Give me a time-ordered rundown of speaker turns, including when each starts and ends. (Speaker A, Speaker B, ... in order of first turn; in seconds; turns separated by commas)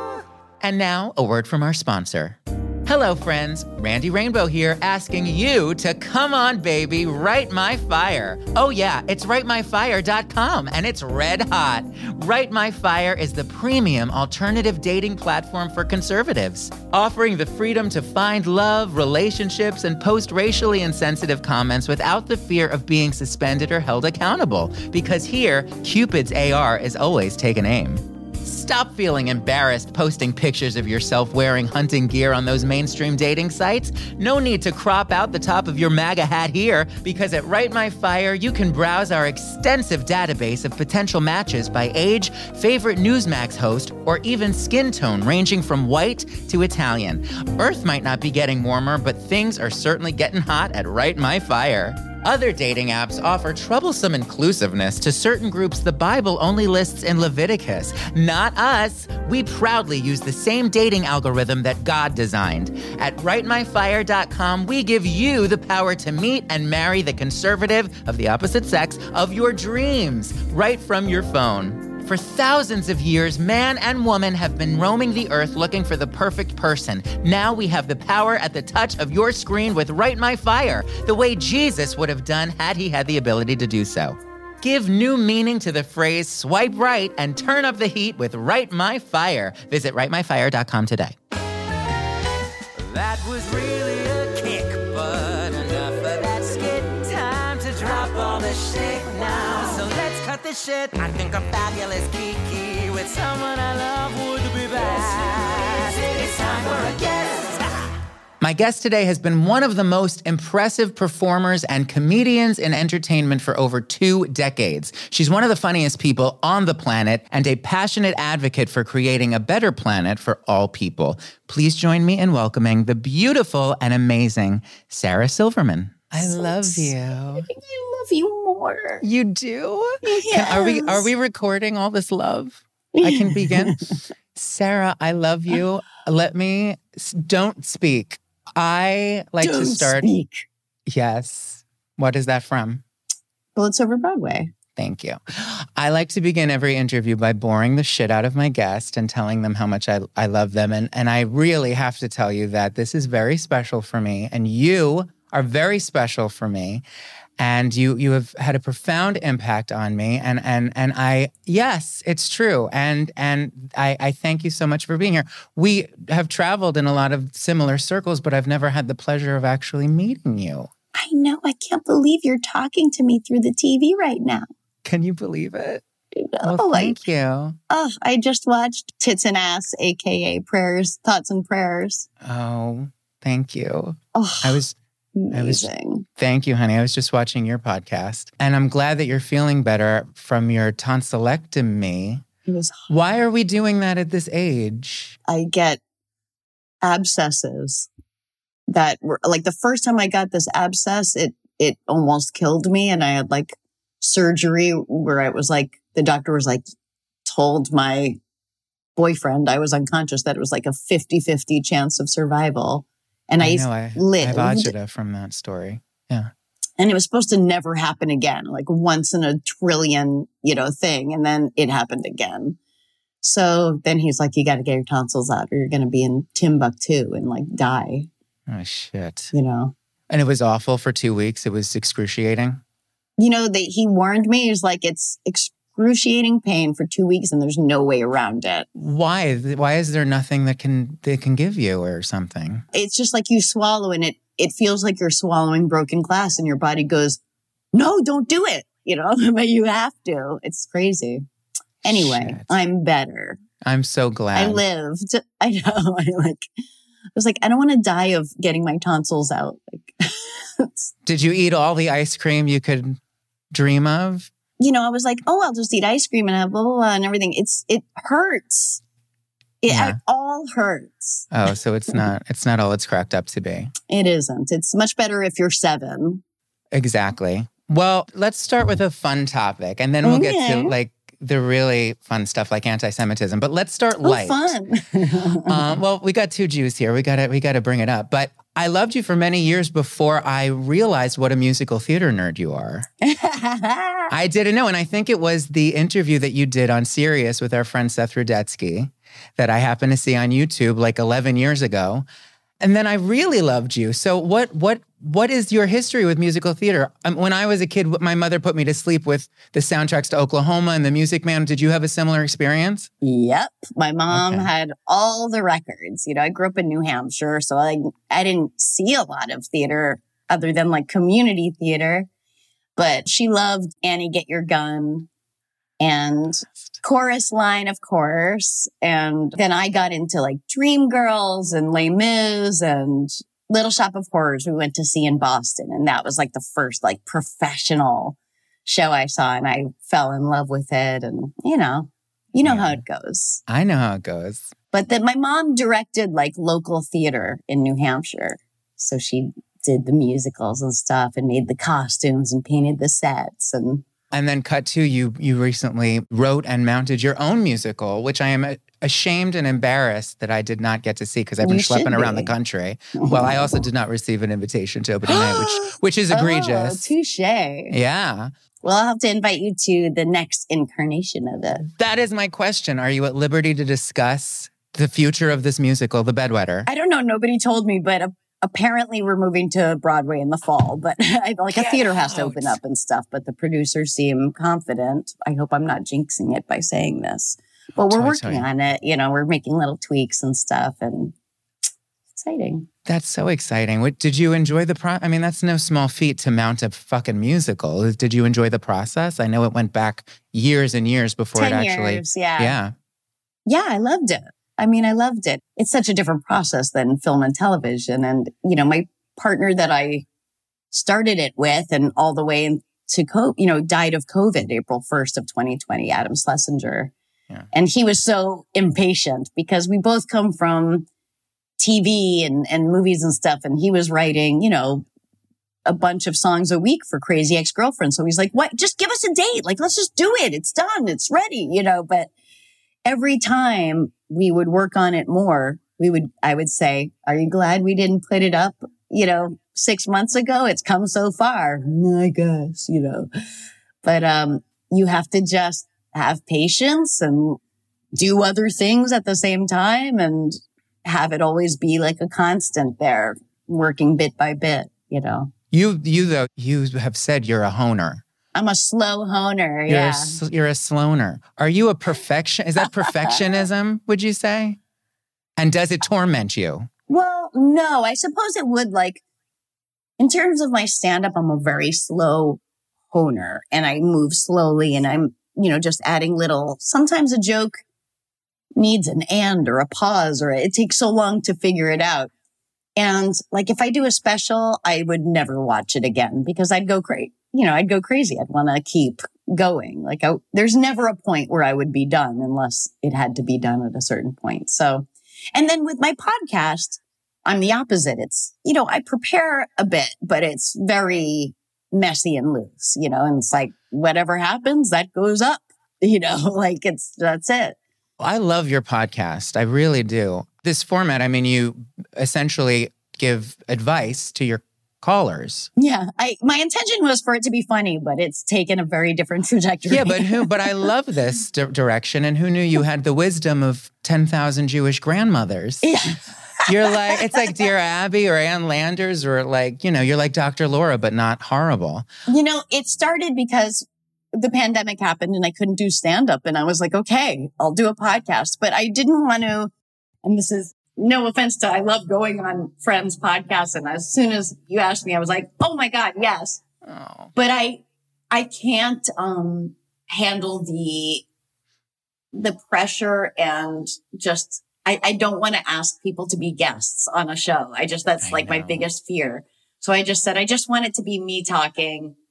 Speaker A: 0.6-91.2, Speaker B: 92.7-107.7, Speaker A: 108.4-127.5, Speaker C: 126.2-129.0, Speaker A: 129.0-133.8, Speaker C: 130.0-131.1, Speaker C: 132.9-133.8, Speaker A: 134.3-140.1, Speaker C: 139.4-140.4, Speaker A: 140.9-142.8, Speaker C: 143.6-144.5, Speaker A: 144.8-156.8, Speaker A: 157.4-170.7, Speaker C: 170.9-174.5, Speaker A: 174.8-175.8, Speaker C: 176.2-176.9, Speaker A: 176.4-177.6, Speaker C: 177.7-182.1, Speaker A: 182.2-184.8, Speaker C: 184.1-184.6, Speaker C: 185.1-186.1, Speaker A: 185.3-192.2, Speaker C: 192.5-192.9, Speaker A: 192.9-195.2, Speaker C: 195.3-195.8, Speaker C: 196.8-197.9, Speaker C: 198.7-206.6, Speaker C: 207.2-208.2, Speaker C: 208.9-214.7, Speaker A: 213.4-216.3, Speaker C: 216.8-222.6, Speaker C: 223.2-228.1, Speaker A: 228.5-229.3, Speaker C: 229.3-229.7, Speaker A: 230.1-232.6, Speaker C: 233.2-238.7, Speaker A: 238.8-242.6, Speaker C: 242.7-247.2, Speaker C: 247.7-251.2, Speaker A: 251.8-252.6, Speaker C: 251.8-253.4, Speaker A: 253.6-254.6, Speaker C: 254.3-256.4, Speaker C: 257.1-260.9, Speaker A: 261.0-263.0, Speaker A: 263.5-264.3, Speaker C: 264.6-268.8, Speaker C: 269.6-271.2, Speaker A: 269.7-270.0, Speaker A: 271.3-273.7, Speaker C: 273.9-276.2, Speaker A: 276.7-284.6, Speaker C: 280.0-280.7, Speaker C: 284.0-285.7, Speaker A: 285.5-292.9, Speaker C: 293.0-294.1, Speaker A: 294.1-302.1, Speaker A: 302.6-312.9, Speaker C: 313.0-322.1, Speaker A: 314.1-314.5, Speaker C: 322.8-325.1, Speaker C: 325.8-343.4, Speaker A: 342.4-342.8, Speaker A: 343.5-344.5, Speaker C: 344.7-353.8, Speaker A: 354.1-366.9, Speaker C: 361.4-362.3, Speaker C: 363.0-363.5, Speaker C: 365.1-367.7, Speaker A: 367.7-368.3, Speaker C: 368.6-371.6, Speaker A: 371.6-376.7, Speaker C: 376.7-391.1, Speaker A: 381.5-382.6, Speaker A: 387.9-388.5, Speaker C: 392.1-392.7, Speaker A: 392.9-402.7, Speaker C: 401.4-402.6, Speaker C: 403.4-410.1, Speaker C: 410.7-416.9, Speaker C: 417.5-420.9, Speaker C: 421.6-424.8, Speaker C: 425.6-432.1, Speaker C: 432.8-443.1, Speaker C: 443.8-447.4, Speaker C: 447.9-455.3, Speaker A: 455.5-458.0, Speaker C: 458.3-460.2, Speaker A: 459.7-464.6, Speaker A: 465.4-466.7, Speaker C: 466.9-469.0, Speaker C: 470.0-472.4, Speaker C: 472.9-477.6, Speaker C: 478.5-482.1, Speaker C: 482.8-507.6, Speaker A: 508.0-515.5, Speaker C: 515.6-520.3, Speaker A: 519.7-525.7, Speaker C: 525.6-527.1, Speaker A: 526.5-531.9, Speaker C: 532.1-539.5, Speaker C: 540.0-546.4, Speaker A: 546.6-547.1, Speaker C: 547.1-551.0, Speaker C: 552.1-562.0, Speaker A: 558.0-558.7